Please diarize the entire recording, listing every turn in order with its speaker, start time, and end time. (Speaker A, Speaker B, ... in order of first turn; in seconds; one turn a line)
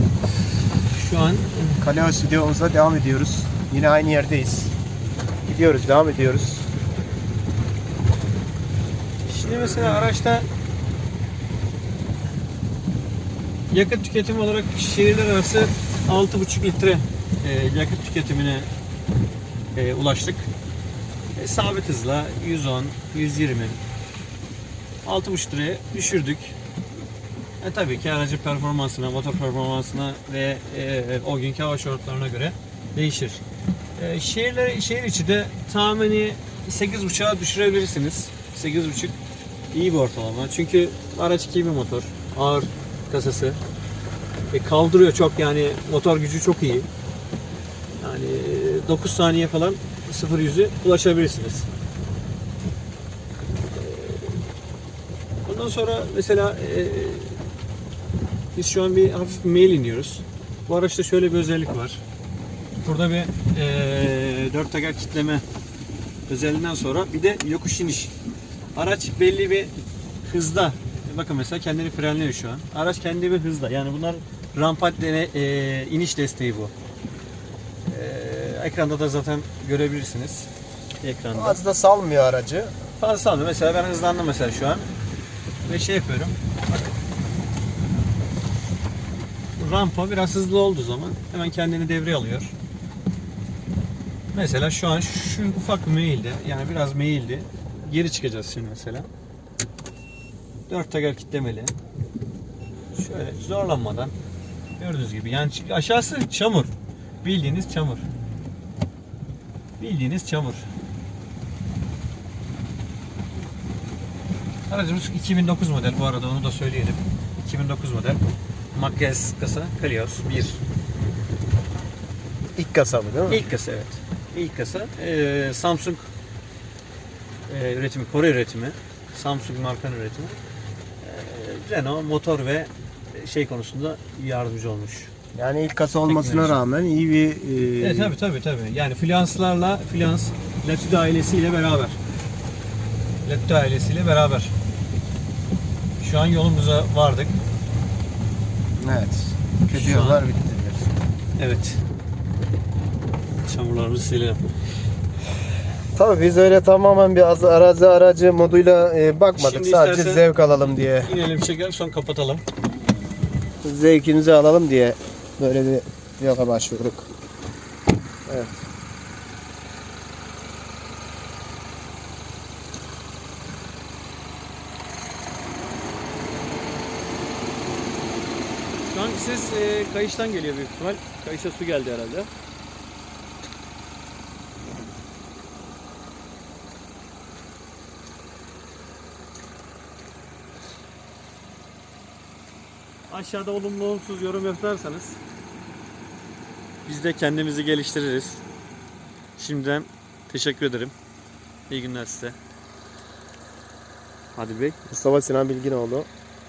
Speaker A: 0.9-1.8
Speaker B: 1.8-4.7
Speaker B: 5.5-6.7
Speaker A: 9.2-10.5
Speaker A: 13.7-18.7
Speaker A: 19.7-20.5
Speaker A: 21.4-23.8
Speaker A: 25.0-26.6
Speaker A: 27.6-33.4
Speaker A: 34.0-39.2
Speaker A: 39.7-43.6
Speaker A: 44.5-46.9
Speaker A: 48.0-51.7
Speaker A: 53.7-54.5
Speaker A: 55.5-57.4
Speaker A: 58.5-62.0
Speaker A: 62.8-65.4
Speaker A: 66.3-68.1
Speaker A: 68.8-76.7
Speaker A: 77.9-80.5
Speaker A: 81.0-81.6
Speaker B: 81.3-82.7
Speaker A: 83.0-84.9
Speaker A: 85.7-86.4
Speaker A: 89.6-92.5
Speaker A: 94.3-99.1
Speaker A: 100.7-101.8
Speaker A: 102.9-104.1
Speaker A: 104.8-106.7
Speaker A: 107.2-108.0
Speaker A: 109.8-110.7
Speaker A: 114.7-118.2
Speaker A: 118.7-120.6
Speaker B: 122.6-123.4
Speaker A: 123.3-126.1
Speaker A: 127.5-130.4
Speaker A: 131.0-135.1
Speaker B: 135.3-138.2
Speaker A: 136.1-136.6
Speaker A: 137.8-142.0
Speaker A: 143.2-144.5
Speaker A: 146.0-147.4
Speaker B: 148.8-150.9
Speaker A: 149.7-150.2
Speaker A: 151.4-151.8
Speaker A: 153.4-154.4
Speaker B: 155.9-161.1
Speaker A: 159.3-162.4
Speaker B: 163.6-167.1
Speaker B: 168.3-168.6
Speaker A: 178.9-182.3
Speaker A: 193.1-195.2
Speaker A: 196.9-198.4
Speaker A: 199.4-200.9
Speaker A: 201.7-202.4
Speaker A: 204.3-204.8
Speaker B: 204.9-206.1